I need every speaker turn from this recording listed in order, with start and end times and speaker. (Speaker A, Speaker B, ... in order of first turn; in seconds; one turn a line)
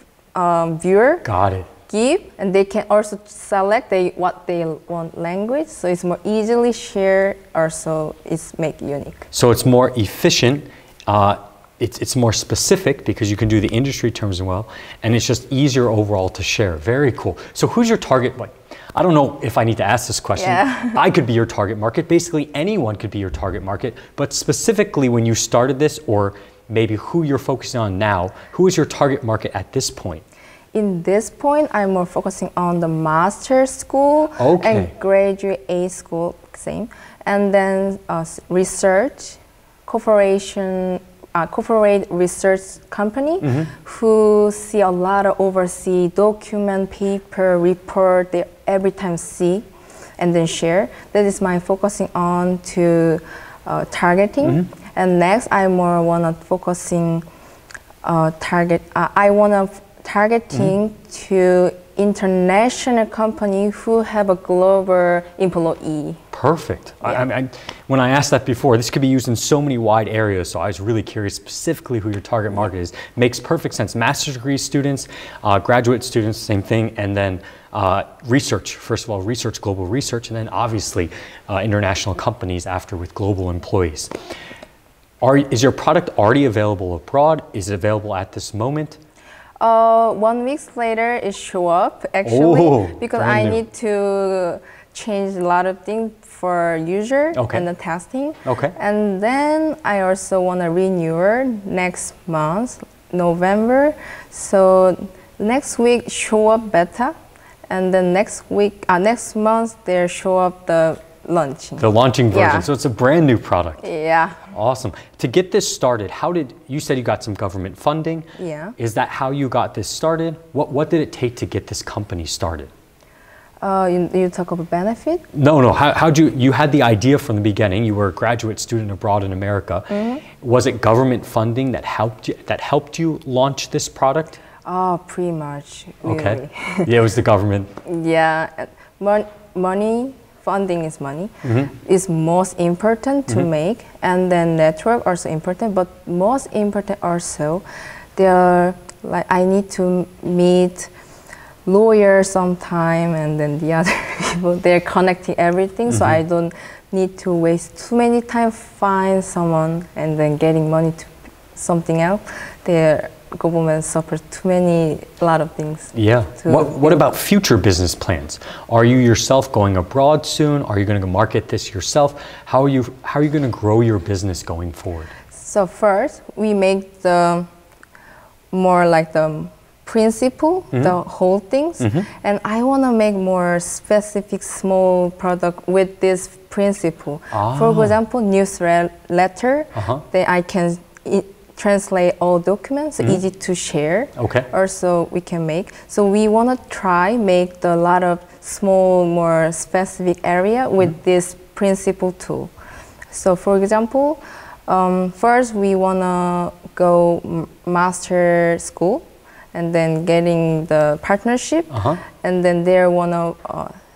Speaker A: 0.3-1.3
Speaker B: 1.2-1.7
Speaker A: 1.9-9.2
Speaker B: 9.3-30.2
Speaker A: 20.4-21.0
Speaker A: 30.7-49.7
Speaker B: 34.4-34.9
Speaker B: 43.4-43.7
Speaker A: 50.2-57.2
Speaker A: 58.0-66.2
Speaker B: 66.3-84.1
Speaker B: 85.2-89.0
Speaker A: 89.6-107.1
Speaker B: 92.2-93.6
Speaker B: 97.3-97.6
Speaker B: 98.4-98.7
Speaker A: 107.7-112.7
Speaker B: 111.8-113.8
Speaker A: 113.8-114.4
Speaker B: 114.5-118.3
Speaker A: 118.4-118.8
Speaker B: 118.8-122.7
Speaker A: 123.6-125.2
Speaker B: 125.3-134.4
Speaker A: 129.9-130.2
Speaker A: 134.6-136.9
Speaker B: 136.0-137.7
Speaker A: 137.8-147.6
Speaker B: 141.4-141.7
Speaker A: 148.2-150.9
Speaker A: 151.7-167.0
Speaker B: 155.9-156.2
Speaker B: 165.9-175.1
Speaker A: 175.3-177.5
Speaker A: 178.5-202.5
Speaker B: 181.8-182.1
Speaker B: 187.3-187.9
Speaker B: 189.7-190.0
Speaker B: 194.2-194.5
Speaker A: 203.1-213.7
Speaker B: 211.7-212.0